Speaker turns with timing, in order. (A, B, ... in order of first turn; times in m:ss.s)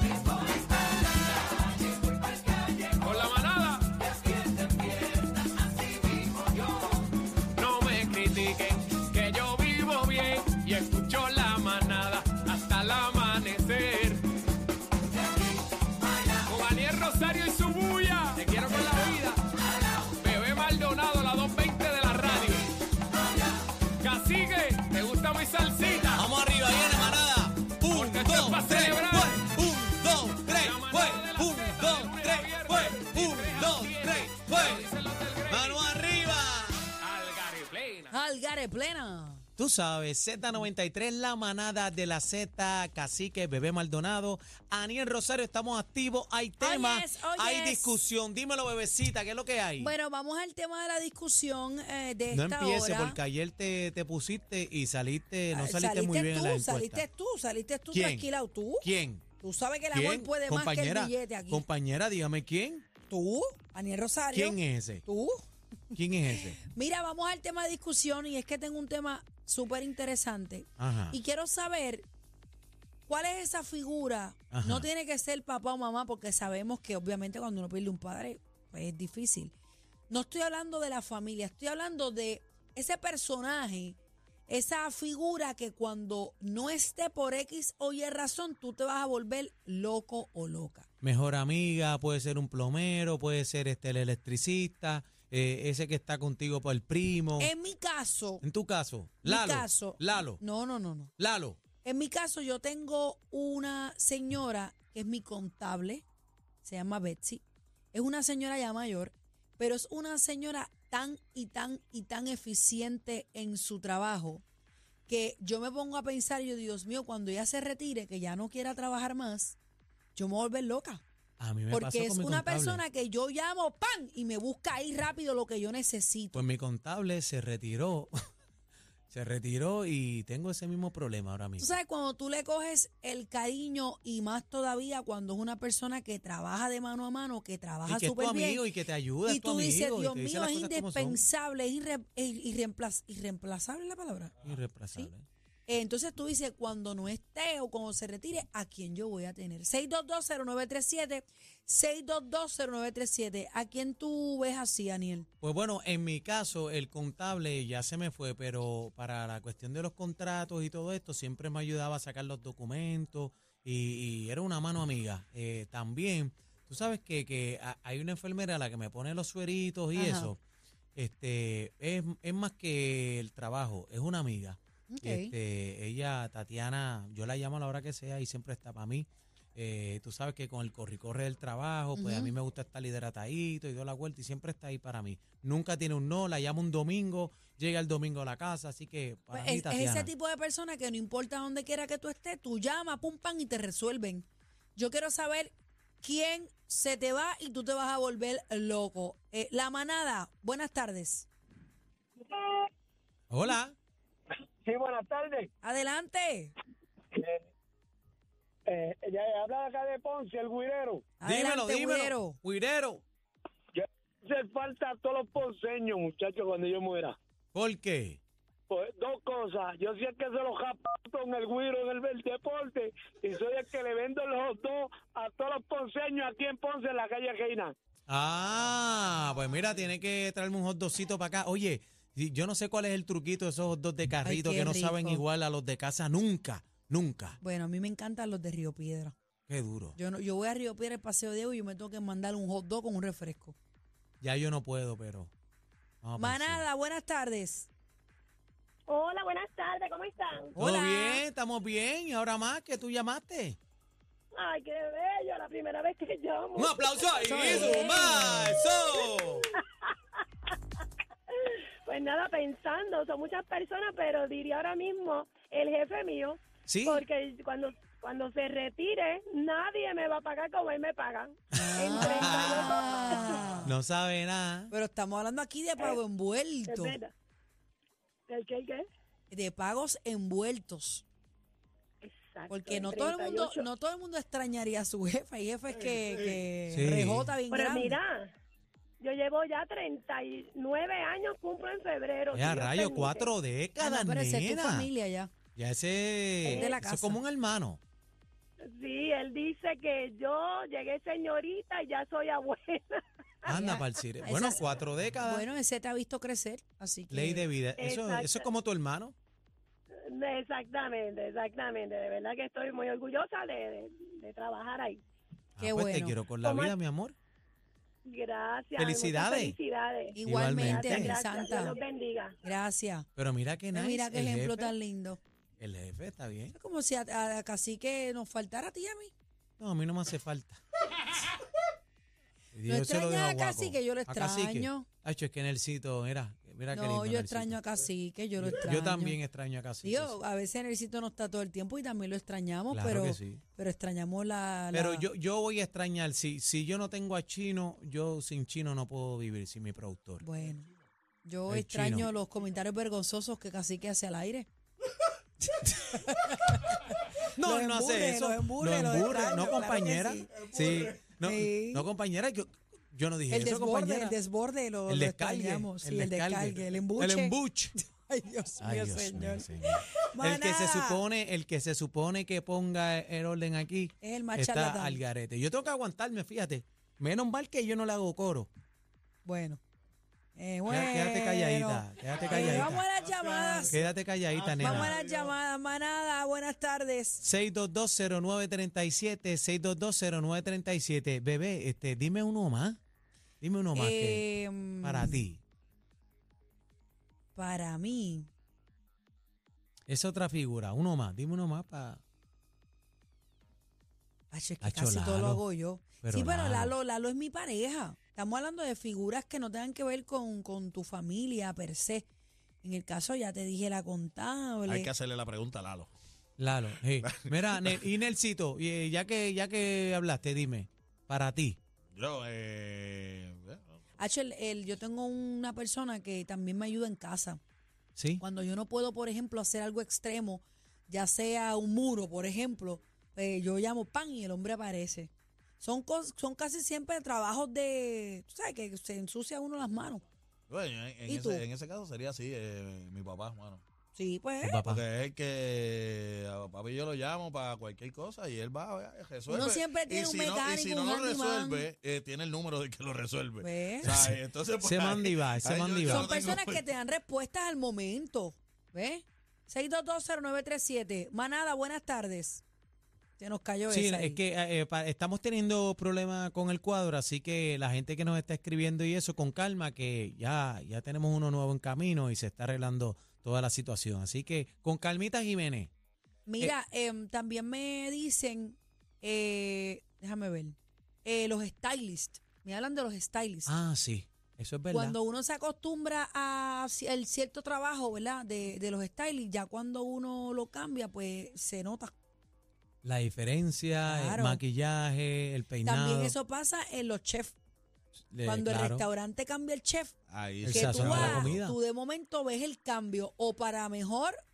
0:02.9-0:04.0 A
0:06.2-0:06.9 A
0:07.5-0:14.2 A
0:16.4-0:19.4 A
0:20.1-0:22.7 A
0:24.0-0:26.2 A
0:26.1-0:34.9 B
0:27.9-0:29.4 A
0:30.6-0:35.8 A
0:35.5-0:36.9 B
0:37.0-0:38.1 A
0:38.1-0:39.4 C
0:39.6-0:49.9 B
0:46.6-0:47.9 C
0:49.8-0:53.2 C
0:52.3-0:57.0 B
0:55.5-0:58.9 C
0:57.9-0:58.3 B
0:58.8-0:59.2 B
0:59.4-1:01.6 C
0:59.9-1:02.8 B
1:03.1-1:05.4 C
1:04.3-1:05.0 B
1:05.9-1:06.6 B
1:06.4-1:12.1 C
1:10.8-1:11.2 B
1:13.1-1:19.5 C
1:14.5-1:14.9 B
1:20.1-1:30.9 C
1:31.0-1:37.5 B
1:37.4-1:38.4 C
1:38.4-1:40.4 B
1:39.2-1:41.1 C
1:41.2-1:41.6 B
1:41.8-1:46.0 C
1:46.6-1:54.4 C
1:55.1-1:59.6 C
2:00.1-2:01.0 C
2:01.4-2:02.8 B
2:01.7-2:06.4 C
2:06.3-2:08.1 B
2:09.1-2:11.7 B
2:11.6-2:18.6 C
2:17.8-2:21.2 B
2:19.2-2:24.4 C
2:24.4-2:25.2 B
2:25.7-2:35.3 C
2:35.4-2:50.4 B
2:49.9-2:50.3 C
2:51.0-3:10.1 B
2:54.9-2:55.3 C
3:01.9-3:02.3 C
3:09.3-3:21.3 C
3:23.3-3:23.7 B
3:24.6-3:25.5 D
3:25.6-3:26.5 C
3:27.1-3:27.4 D
3:28.7-3:31.0 D
3:31.2-3:32.4 C
3:31.2-3:33.0 B
3:33.8-3:37.1 D
3:37.5-3:38.2 B
3:38.7-3:47.7 D
3:48.1-3:57.4 B
3:54.2-3:55.2 C
3:57.4-3:59.1 C
3:59.5-4:00.0 B
4:00.0-4:03.6 C
4:04.2-4:05.3 B
4:06.0-4:06.6 B
4:06.2-4:07.7 C
4:08.9-4:10.6 E
4:10.6-4:11.2 C
4:10.6-4:13.6 B
4:14.3-4:19.9 E
4:16.6-4:19.4 B
4:17.2-4:18.4 C
4:21.3-4:33.5 E
4:26.7-4:27.0 B
4:31.5-4:33.7 C
4:31.6-4:34.7 B
4:34.7-4:37.0 C
4:36.7-4:37.1 E
4:38.3-4:38.9 E
4:39.3-4:41.0 C
4:42.0-4:43.6 E
4:42.5-4:48.0 C
4:46.7-4:47.3 B
4:47.5-4:48.3 E
4:49.0-4:53.3 E
4:52.3-4:54.9 B
4:53.8-4:55.3 C
4:55.5-4:57.8 B
4:56.4-4:57.2 C
4:56.5-4:56.7 E
4:58.6-5:03.0 E
5:03.4-5:05.4 B
5:03.5-5:04.6 C
5:05.2-5:07.5 C
5:07.1-5:09.1 B
5:07.8-5:08.4 E
5:10.0-5:15.0 E
5:15.6-5:17.2 B
5:15.6-5:16.2 C
5:16.4-5:16.7 E
5:18.0-5:22.4 E
5:18.8-5:19.6 B
5:20.1-5:21.8 C
5:20.2-5:21.2 B
5:22.4-5:23.1 C
5:23.2-5:24.7 B
5:23.7-5:25.2 C
5:25.6-5:26.6 B
5:26.5-5:29.1 C
5:29.6-5:30.6 B
5:32.5-5:37.6 B
5:32.7-5:34.9 C
5:36.7-5:39.2 C
5:38.4-5:40.2 B
5:39.8-5:45.1 C
5:42.7-5:43.4 B
5:44.7-5:50.2 B
5:50.2-5:50.7 C
5:51.2-5:54.5 C
5:51.5-5:52.1 B
5:55.5-6:00.5 C
5:57.3-6:04.2 B
6:01.2-6:01.9 C
6:03.3-6:11.0 C
6:04.9-6:07.8 B
6:08.6-6:18.5 B
6:14.0-6:15.0 C
6:19.2-6:19.6 C
6:20.4-6:23.8 C
6:20.7-6:22.8 B
6:23.7-6:24.9 B
6:24.4-6:27.2 C
6:24.6-6:24.9 F
6:27.2-6:32.8 B
6:33.4-6:34.2 B
6:33.8-6:35.3 C
6:34.8-6:35.4 B
6:37.3-6:38.3 C
6:39.9-6:42.0 B
6:44.3-6:52.1 C
6:44.6-6:45.4 B
6:46.0-6:46.7 B
6:52.6-6:54.9 C
6:54.7-6:55.9 F
6:56.4-7:01.6 B
6:57.2-6:57.7 F
7:01.9-7:03.8 F
7:04.0-7:07.4 C
7:08.0-7:08.2 B
7:08.2-7:20.0 C
7:20.5-7:23.6 F
7:21.0-7:21.4 C
7:23.9-7:24.6 C
7:24.4-7:24.8 B
7:24.6-7:36.6 F
7:29.3-7:31.7 C
7:33.4-7:34.0 C
7:33.8-7:36.3 B
7:35.8-7:42.4 C
7:43.2-7:44.2 C
7:43.7-7:55.7 B
7:56.2-8:03.5 C
8:03.4-8:05.0 B
8:04.7-8:11.9 C
8:12.8-8:16.1 B
8:13.8-8:14.4 C
8:15.6-8:17.4 C
8:18.1-8:18.8 B
8:18.2-8:24.2 C
8:20.1-8:21.4 F
8:20.4-8:21.6 B